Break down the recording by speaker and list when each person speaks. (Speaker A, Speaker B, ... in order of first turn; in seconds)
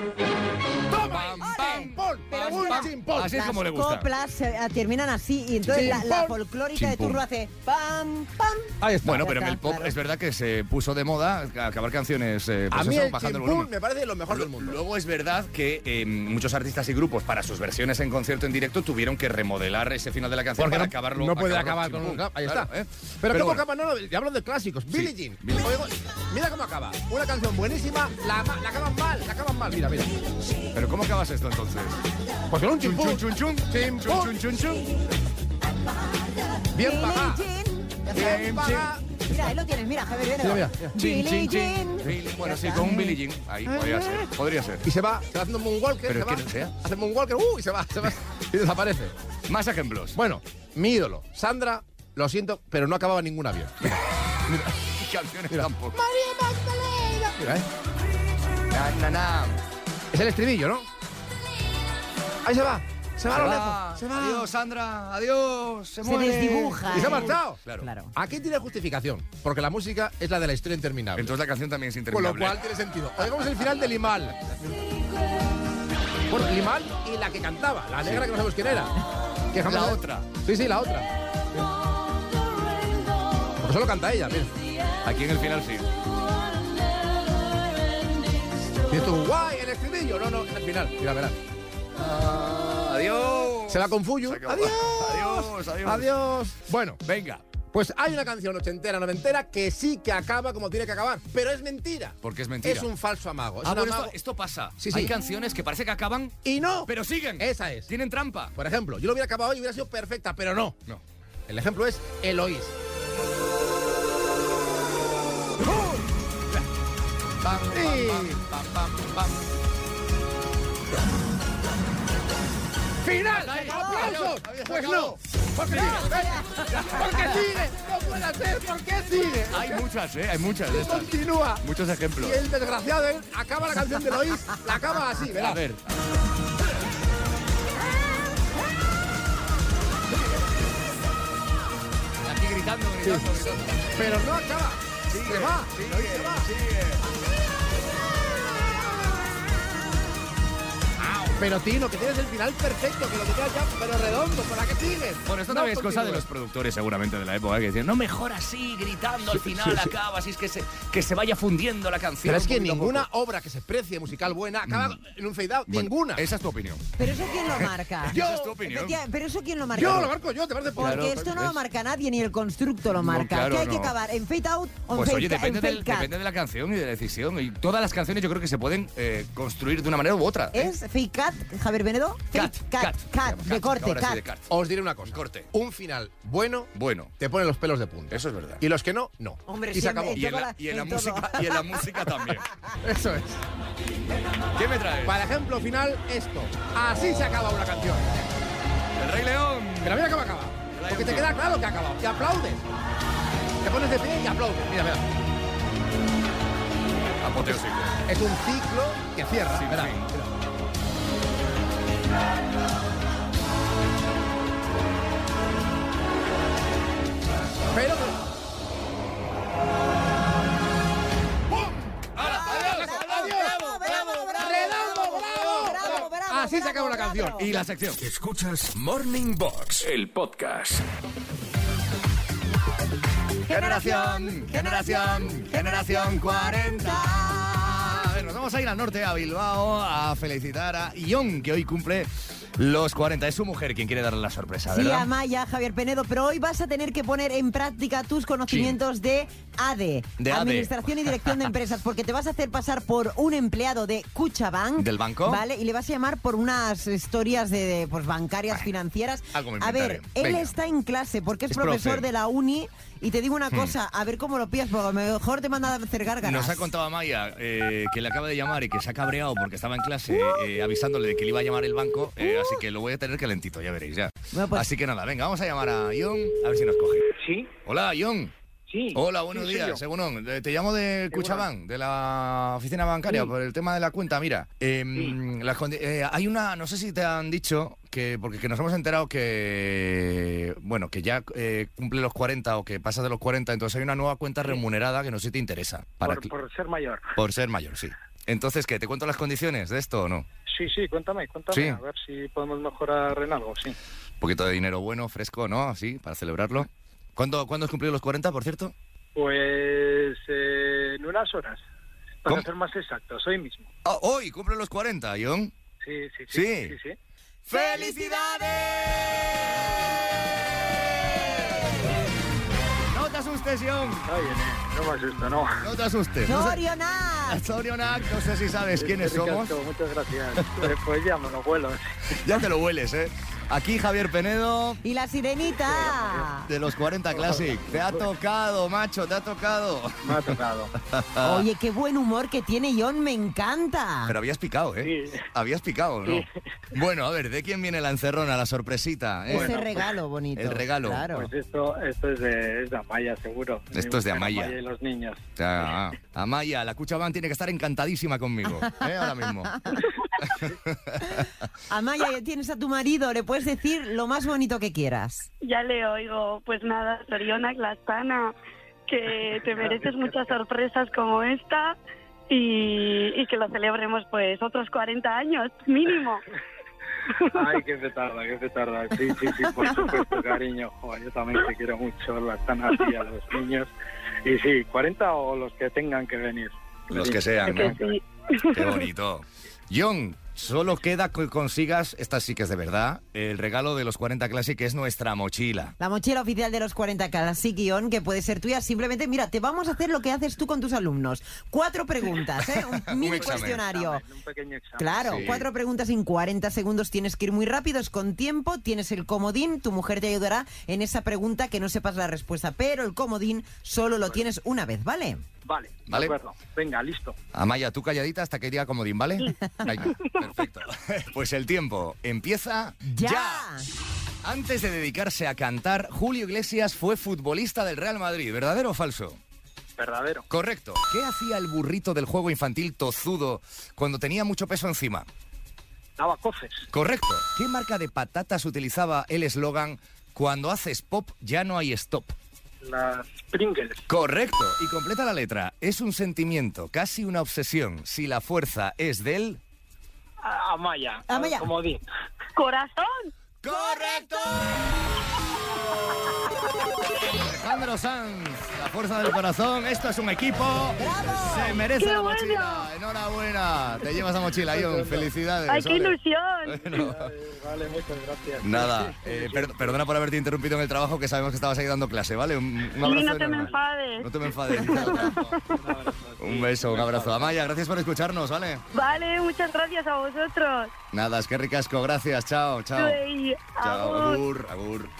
Speaker A: 0.9-3.4, 5.7-6.4, 8.8-9.2, 12.7-14.8, 20.6-22.7, 23.2-30.1, 32.5-34.4, 36.7-37.4, 38.1-39.1, 40.4-41.0, 44.8-49.1, 50.1-53.9, 55.5-57.6, 60.1-60.9, 62.4-64.5, 66.9-67.6, 68.1-71.3, 72.1-74.8, 76.3-79.0, 79.5-81.7, 83.6-84.5, 88.9-91.4, 93.7-97.0, 97.7-104.1, 104.8-105.2, 106.4-107.9, 108.5-110.8, 111.5-112.7, 115.7-116.0, 117.7-118.4, 123.0-129.8, 130.7-131.6, 132.2-135.6, 143.0-143.3, 143.9-146.5, 151.3-156.2, 162.2-166.2, 169.7-171.3, 184.5-190.2, 192.8-193.4, 195.0-198.3, 199.8-202.6, 203.6-205.0, 208.1-210.3, 217.7-218.2, 221.5-227.5
Speaker B: 1.0-4.1, 5.7-6.0, 6.7-7.2, 9.0-13.7, 14.3-23.6, 24.9-25.7, 30.7-32.0, 32.8-34.9, 38.1-38.9, 41.0-44.8, 46.0-46.7, 49.5-50.2, 54.8-56.0, 58.7-59.6, 63.3-67.9, 71.1-72.6, 78.0-78.3, 79.6-80.3, 85.0-85.9, 92.0-96.2, 97.0-97.4, 102.2-102.9, 103.6-108.5, 117.4-119.4, 123.3-125.2, 125.7-126.1, 129.5-132.4, 135.3-135.8, 142.2-144.1, 145.1-147.0, 151.0-151.3, 155.2-163.1, 164.7-165.0, 165.7-166.8, 167.5-169.0, 170.8-171.6, 172.9-173.9, 174.9-180.7, 182.3-184.5, 185.1-185.5, 186.7-187.1, 188.1-188.6, 190.1-192.5, 194.6-195.2, 199.0-200.0, 200.7-201.4, 207.2-208.0, 209.5-210.1, 222.2-226.0, 227.4-228.0, 233.5-245.1, 248.5-248.8, 250.2-251.1, 254.8-255.4, 259.3-260.5, 261.5-262.1, 266.2-277.1, 277.6-278.3, 278.9-296.3, 297.2-300.2, 301.5-301.8, 304.2-308.7, 313.8-315.5, 316.3-316.8, 317.5-319.6, 321.1-321.6, 322.9-324.0, 325.6-326.6, 327.3-329.5, 332.1-334.8, 336.4-341.4, 344.1-351.1, 353.7-354.6, 355.4-361.3, 386.9-387.8, 388.5-395.7, 402.4-403.6, 405.0-405.4, 417.3-423.4, 424.2-429.2, 430.3-435.1, 436.7-442.1, 443.9-449.4, 453.4-454.7, 457.1-465.9, 466.4-467.1, 468.4-475.2, 476.2-478.6, 480.9-483.0, 483.6-484.9
Speaker C: 1.4-9.9, 36.7-38.5, 39.3-43.2, 66.0-68.1, 123.7-124.0, 125.9-126.6, 167.0-170.1, 170.7-176.1, 180.5-184.2, 189.4-192.0, 222.2-227.6, 233.5-237.9, 244.7-266.7, 274.3-274.7, 317.5-318.5, 326.2-327.4, 334.8-336.5, 341.2-344.1, 349.3-351.3, 361.7-365.3, 395.8-404.0, 404.8-415.2, 422.9-423.7, 451.1-451.5, 460.8-461.7
Speaker D: 228.0-230.8
Speaker E: 277.2-277.5, 278.7-279.8, 281.1-281.4, 296.0-297.1, 300.5-303.8, 309.1-311.6, 312.2-313.7, 315.8-316.9, 324.1-325.6, 328.8-331.9, 335.8-336.1, 337.1-338.0, 340.0-340.7, 344.8-345.2, 349.3-349.7, 351.1-355.2, 369.6-370.3, 377.3-383.7, 384.2-388.0, 403.0-405.3, 415.4-417.2, 429.8-430.2, 436.0-436.7, 442.6-443.8, 450.2-451.8, 464.5-465.1, 466.7-469.8, 474.7-477.3
Speaker F: 365.4-368.3, 368.9-371.8, 372.3-376.2, 387.5-388.0, 452.4-453.1, 461.8-462.7, 465.5-466.8, 472.8-475.4, 478.7-480.7, 482.8-484.2